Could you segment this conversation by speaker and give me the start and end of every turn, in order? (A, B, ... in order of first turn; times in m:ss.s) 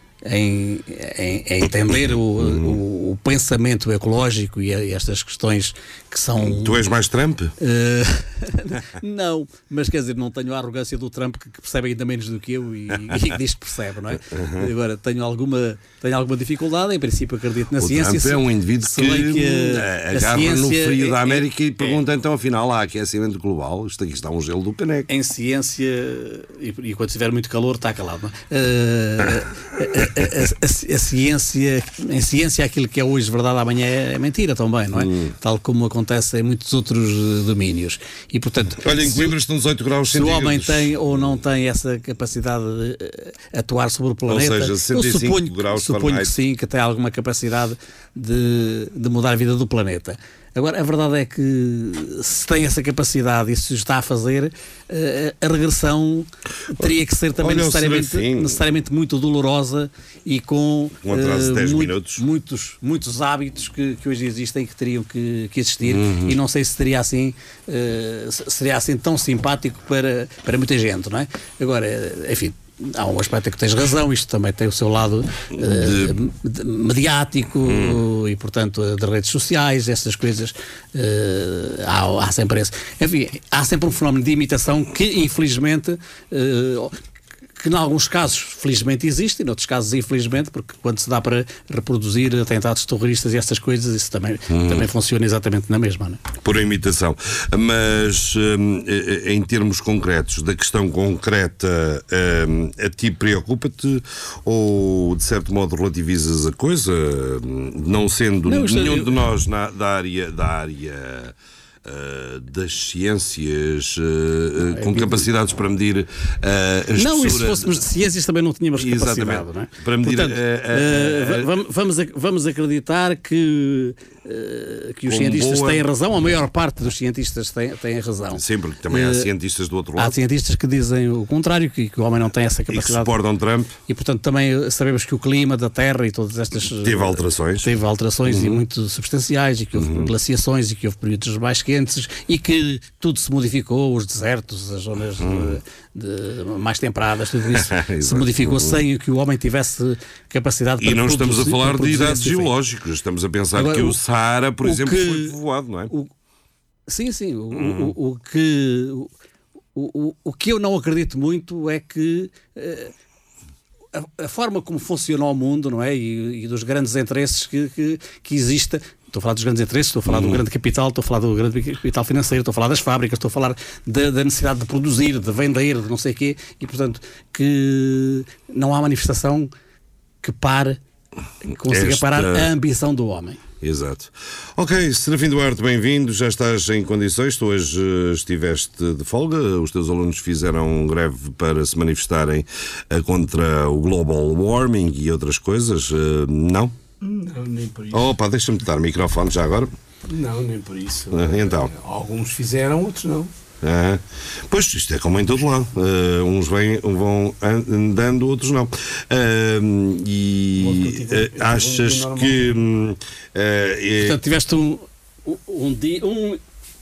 0:00.2-0:06.8 A
0:02.4-0:02.8 B
0:06.4-0:07.5 B
0:07.6-0:21.5 A
0:14.3-0:14.7 B
0:17.8-0:25.1 B
0:25.1-0:39.3 A
0:34.9-0:35.3 B
0:38.8-0:40.9 B
0:40.1-1:27.0 A
0:44.3-0:46.4 B
0:56.8-0:58.6 B
1:01.0-1:02.2 B
1:05.9-1:06.4 B
1:15.6-1:16.2 B
1:17.7-1:18.0 B
1:27.6-1:36.2 A
1:34.5-1:34.9 B
1:36.4-1:57.8 B
1:48.5-1:49.2 A
1:54.7-1:55.2 A
1:57.0-2:09.3 A
1:58.8-2:01.5 B
2:05.1-2:05.8 B
2:08.3-2:10.2 B
2:10.0-2:13.1 A
2:12.7-2:13.7 B
2:13.9-2:32.5 A
2:16.8-2:17.7 B
2:18.2-2:18.6 B
2:19.8-2:20.1 B
2:25.2-2:25.6 B
2:27.5-2:28.8 B
2:30.8-2:35.9 B
2:33.6-2:34.0 A
2:34.6-2:35.4 A
2:36.9-2:39.1 A
2:37.5-2:37.9 B
2:39.8-2:42.9 A
2:43.9-2:59.5 A
2:50.1-2:50.4 B
3:00.2-3:00.8 A
3:01.4-3:03.4 A
3:01.7-3:02.5 B
3:03.6-3:16.7 B
3:17.0-3:18.1 C
3:17.9-3:19.7 B
3:20.1-3:23.3 C
3:21.1-3:21.7 B
3:23.6-3:34.2 B
3:30.6-3:32.6 C
3:34.0-3:36.4 A